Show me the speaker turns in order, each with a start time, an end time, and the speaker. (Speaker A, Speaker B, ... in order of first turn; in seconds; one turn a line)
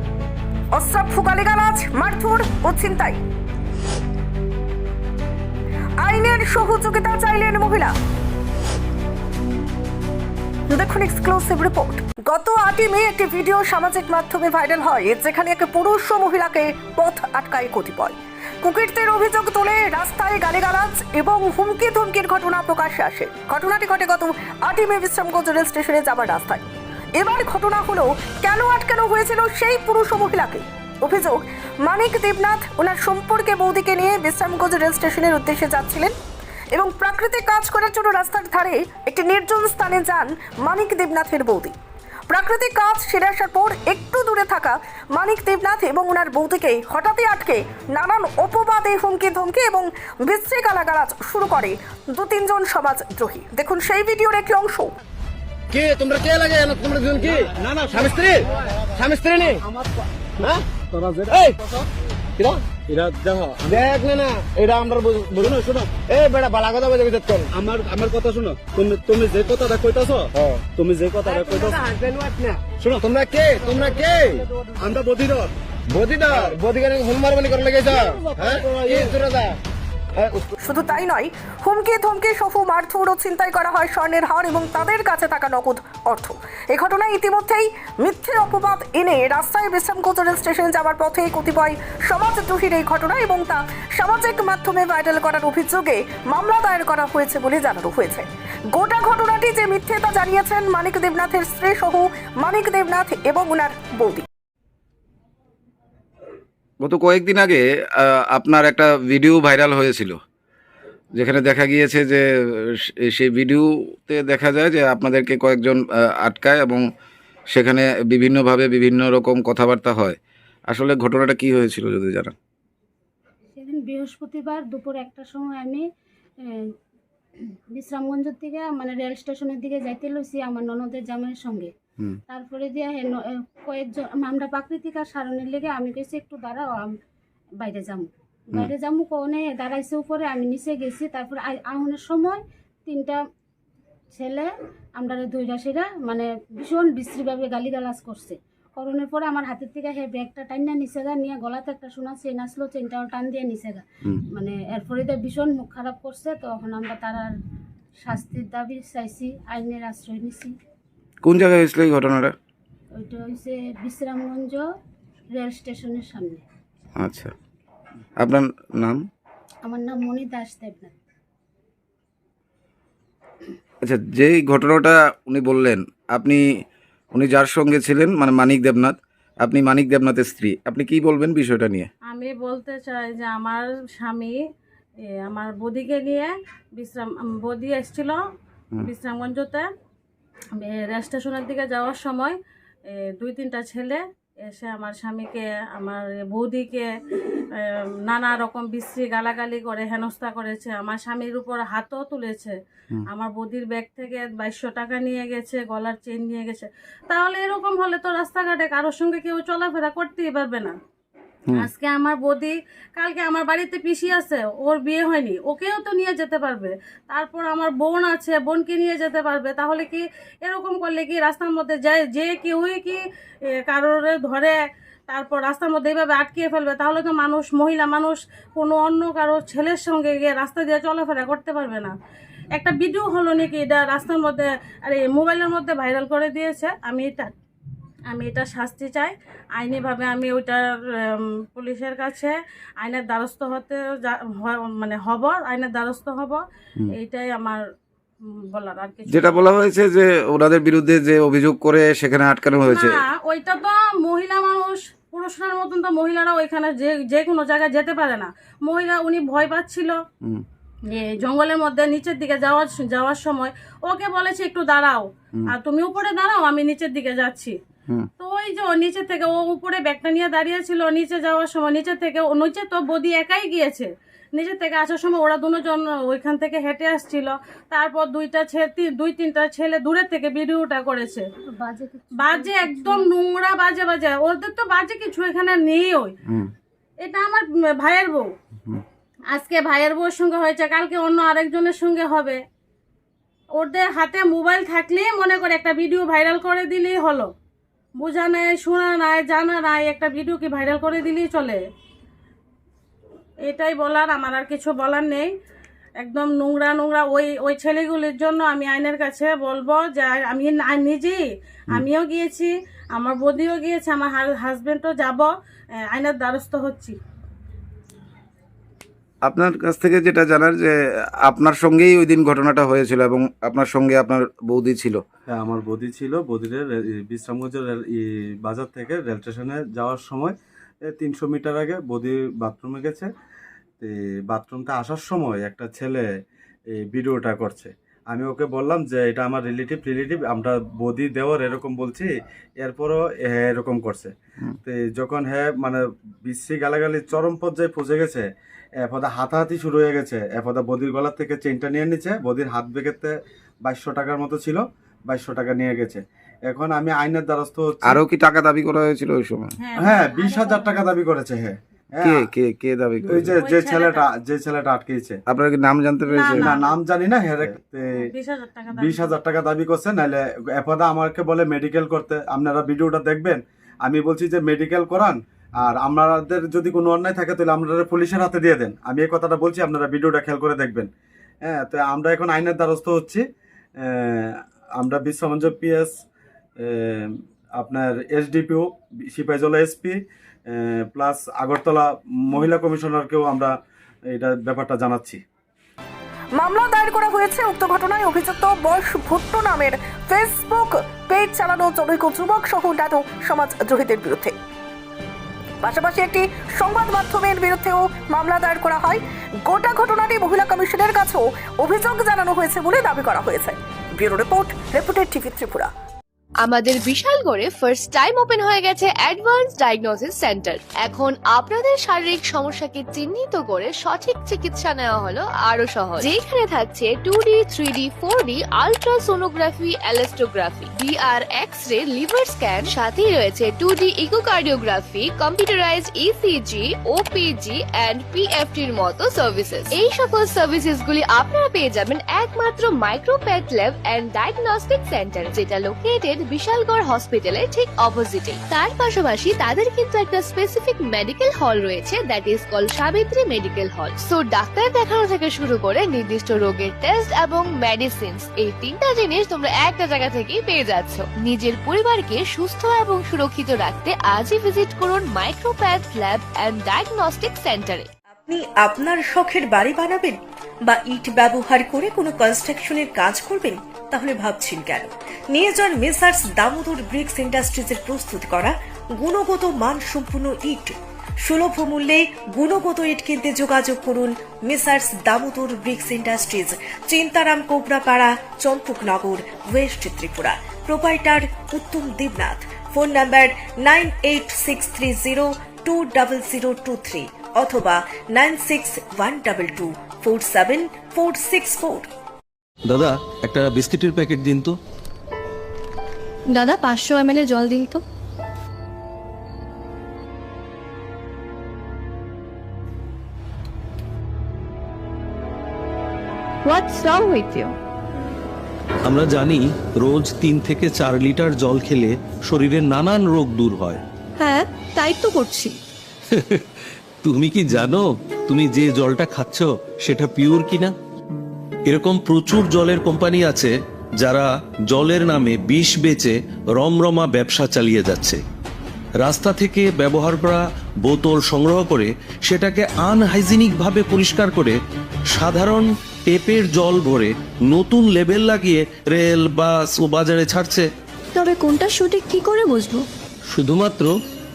Speaker A: 0.7-3.2
Speaker A: 6.0-7.9
Speaker A: 10.7-26.6
Speaker A: 27.2-36.1
Speaker A: 36.7-41.8
Speaker A: 42.3-54.9
Speaker B: 55.7-59.6
Speaker C: 60.9-61.4
Speaker B: 61.3-61.6
Speaker B: 62.4-62.6
Speaker C: 62.9-63.8
Speaker B: 63.7-67.5
Speaker C: 65.5-65.9
Speaker C: 67.5-71.8
Speaker B: 70.4-70.7
Speaker B: 71.3-74.4
Speaker C: 74.8-75.5
Speaker B: 76.0-79.6
Speaker B: 80.2-80.5
Speaker A: 80.6-104.2
Speaker D: 106.8-110.2
Speaker D: 111.2-112.2
Speaker D: 112.7-116.8
Speaker D: 117.5-120.2
Speaker D: 120.7-122.3
Speaker E: 123.5-125.8
Speaker E: 127.7-131.7
Speaker E: 132.3-136.9
Speaker E: 137.6-143.2
Speaker E: 144.1-157.3
Speaker E: 158.0-160.5
Speaker D: 161.2-162.3
Speaker E: 163.0-164.7
Speaker E: 165.3-166.4
Speaker D: 167.0-167.3
Speaker D: 168.2-169.0
Speaker E: 169.7-171.0
Speaker D: 173.8-176.4
Speaker D: 177.1-181.9
Speaker F: 182.1-184.4
Speaker F: 185.2-188.2
Speaker F: 188.8-189.7
Speaker F: 190.6-202.6
Speaker F: 203.1-210.8
Speaker F: 211.5-223.0
Speaker F: 223.6-224.6
Speaker F: 225.1-231.9
Speaker F: 232.6-237.3
Speaker F: 238.1-247.6
Speaker F: 248.5-249.6
Speaker D: 249.1-253.0
Speaker F: 252.7-260.0
Speaker F: 260.9-267.6
Speaker F: 268.2-281.2
Speaker E: 281.6-283.1
Speaker F: 282.2-286.1
Speaker F: 287.0-288.3
Speaker F: 289.3-292.4
Speaker F: 293.6-297.3
Speaker F: 298.0-301.6
Speaker F: 303.5-305.3
Speaker F: 306.0-315.3
Speaker F: 315.9-317.0
Speaker D: 319.3-320.8
Speaker D: 321.3-325.0
Speaker C: 325.3-330.3
Speaker C: 330.9-333.1
Speaker C: 333.8-336.1
Speaker C: 336.7-344.1
Speaker C: 344.6-348.2
Speaker C: 348.8-358.0
Speaker D: 357.9-359.5
Speaker F: 359.6-360.9
Speaker C: 359.8-362.3
Speaker D: 362.0-363.3
Speaker C: 363.1-365.2
Speaker F: 363.4-364.1
Speaker D: 365.3-366.6
Speaker F: 366.1-366.8
Speaker C: 366.4-367.9
Speaker F: 368.0-369.2
Speaker C: 368.8-380.9
Speaker C: 381.5-383.2
Speaker C: 383.8-385.9
Speaker C: 386.6-387.1
Speaker C: 387.6-393.5
Speaker C: 394.1-395.2
Speaker A: 396.4-404.4
Speaker A: 405.6-415.7
Speaker G: 416.4-467.9
Speaker H: 468.2-501.9
Speaker I: 502.7-504.6
Speaker J: 506.3-507.8
Speaker J: 516.5-517.6
Speaker I: 518.9-523.8
Speaker J: 524.2-525.6
Speaker I: 526.1-526.4
Speaker I: 527.0-530.7
Speaker I: 531.7-538.2
Speaker I: 539.0-544.6
Speaker I: 545.1-550.7
Speaker J: 551.1-552.9
Speaker I: 553.3-553.9